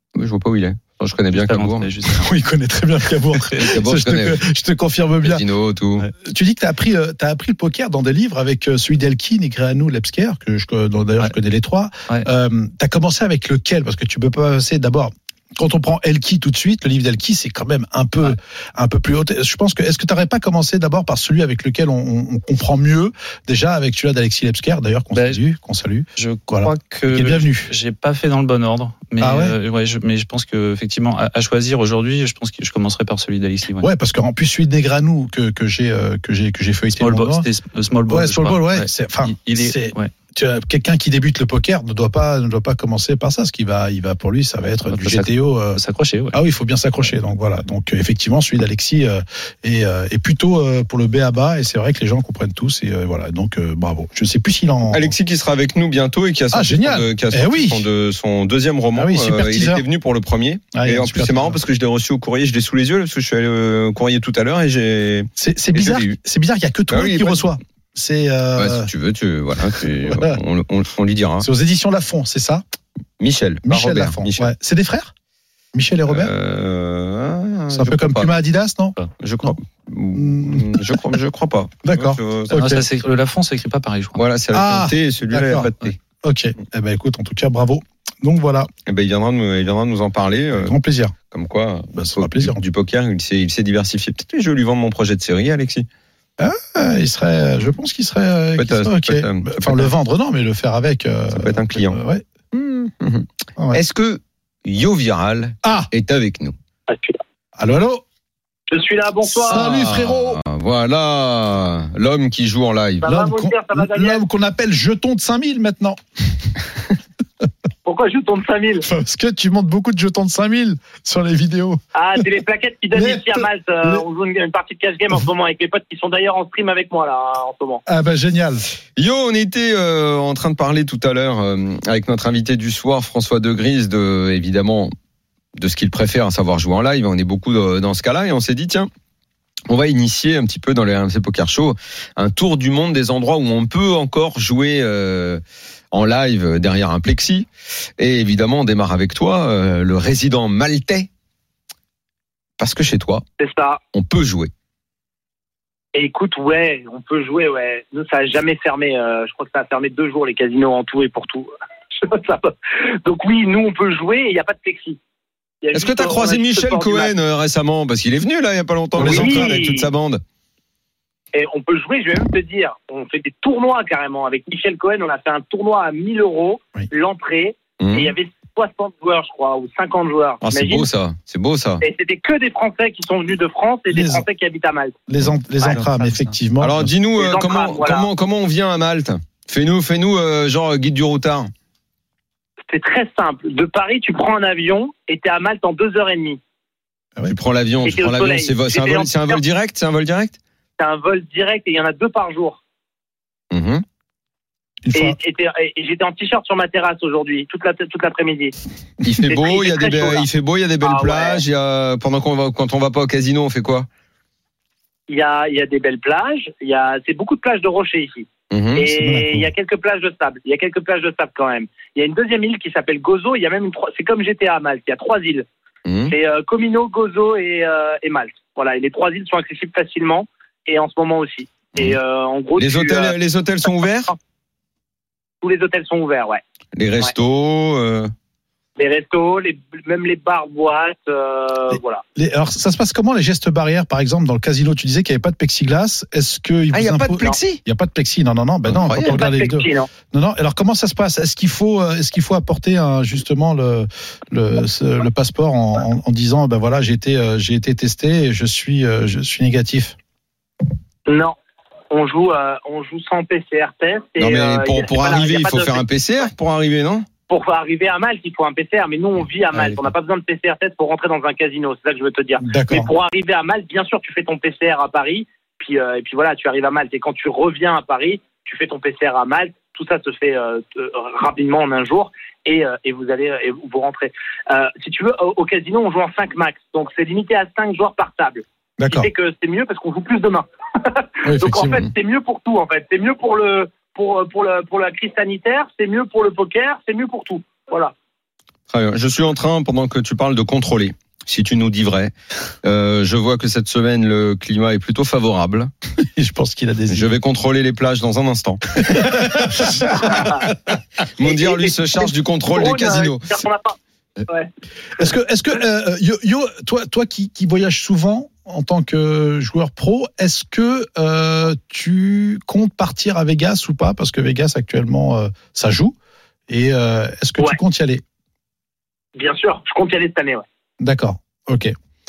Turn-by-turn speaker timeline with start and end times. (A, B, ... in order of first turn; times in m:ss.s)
0:00.1-0:01.9 A
0:01.3-0:02.3 B
0:02.1-0:05.4 C
0:03.5-0:04.4 A
0:05.2-0:06.1 A
0:06.2-0:27.7 C
0:25.1-0:25.4 B
0:26.2-0:33.9 B
0:29.2-0:29.6 C
0:33.8-0:37.5 C
0:36.9-0:40.1 B
0:38.1-0:45.8 C
0:44.9-0:46.4 B
0:46.3-0:55.1 C
0:54.9-1:06.2 A
0:56.5-0:57.9 C
0:58.9-0:59.8 C
1:00.7-1:01.6 C
1:05.4-1:08.9 C
1:06.9-1:07.5 A
1:08.6-1:11.5 A
1:10.1-1:10.4 C
1:11.4-1:12.6 C
1:13.2-1:14.5 A
1:13.6-1:15.1 C
1:15.7-1:16.3 C
1:16.1-1:18.4 A
1:17.7-1:19.5 C
1:19.2-1:22.6 A
1:20.1-1:21.1 C
1:21.8-1:22.8 C
1:22.5-1:24.2 B
1:24.2-1:26.0 A
1:24.5-1:25.7 C
1:26.2-1:28.7 C
1:28.9-1:30.7 A
1:30.5-1:31.1 C
1:31.3-1:35.9 A
1:31.9-1:32.6 C
1:36.4-1:42.2 C
1:38.6-1:39.9 A
1:41.3-1:42.0 A
1:42.5-1:46.5 A
1:45.6-1:45.9 C
1:46.9-1:47.2 D
1:47.6-1:48.0 C
1:48.7-1:49.7 D
1:49.3-1:50.4 C
1:49.4-1:53.1 A
1:53.0-1:54.2 D
1:53.0-1:56.5 C
1:57.8-1:58.8 D
1:58.8-2:01.8 C
2:01.9-2:07.8 D
2:02.9-2:04.0 C
2:07.8-2:08.6 C
2:09.0-2:14.9 A
2:15.6-2:18.9 A
2:19.7-2:25.4 A
2:25.9-2:27.5 A
2:28.0-2:31.1 A
2:32.6-2:33.2 A
2:33.4-2:33.8 D
2:33.9-2:34.5 A
2:35.9-2:45.0 D
2:45.6-2:47.1 D
2:45.7-2:50.2 A
2:49.0-2:49.6 C
2:49.0-2:49.9 D
2:51.3-3:00.9 D
2:57.8-2:58.1 A
3:00.4-3:01.8 A
3:01.8-3:05.0 D
3:03.9-3:04.2 C
3:05.1-3:06.9 C
3:05.7-3:06.3 B
3:06.6-3:11.5 A
3:07.2-3:08.1 D
3:12.7-3:16.4 D
3:17.3-3:20.4 A
3:17.8-3:19.4 D
3:20.8-3:22.6 D
3:23.5-3:23.8 A
3:24.8-3:25.2 C
3:24.9-3:28.5 D
3:29.0-3:33.9 A
3:29.2-3:30.3 D
3:30.8-3:31.4 D
3:35.1-3:45.5 D
3:38.5-3:38.9 A
3:38.9-3:39.5 C
3:45.8-3:46.1 A
3:46.1-3:53.1 D
3:52.6-3:54.1 A
3:55.4-3:56.4 D
3:56.8-3:58.1 A
3:58.8-4:02.0 D
4:02.2-4:19.9 C
4:06.7-4:07.6 A
4:08.7-4:09.2 A
4:09.0-4:09.9 D
4:21.1-4:21.3 D
4:21.9-4:25.8 D
4:24.2-4:27.0 A
4:27.3-4:57.9 D
4:32.4-4:32.9 C
4:48.8-4:49.1 C
4:51.2-4:51.8 C
4:58.7-5:05.7 A
5:06.0-5:07.1 C
5:06.9-5:10.3 A
5:08.8-5:10.5 C
5:10.0-5:10.4 D
5:11.2-5:13.4 A
5:11.2-5:13.8 D
5:15.0-5:25.9 C
5:26.5-5:28.0 C
5:29.2-5:30.4 D
5:30.8-5:31.7 C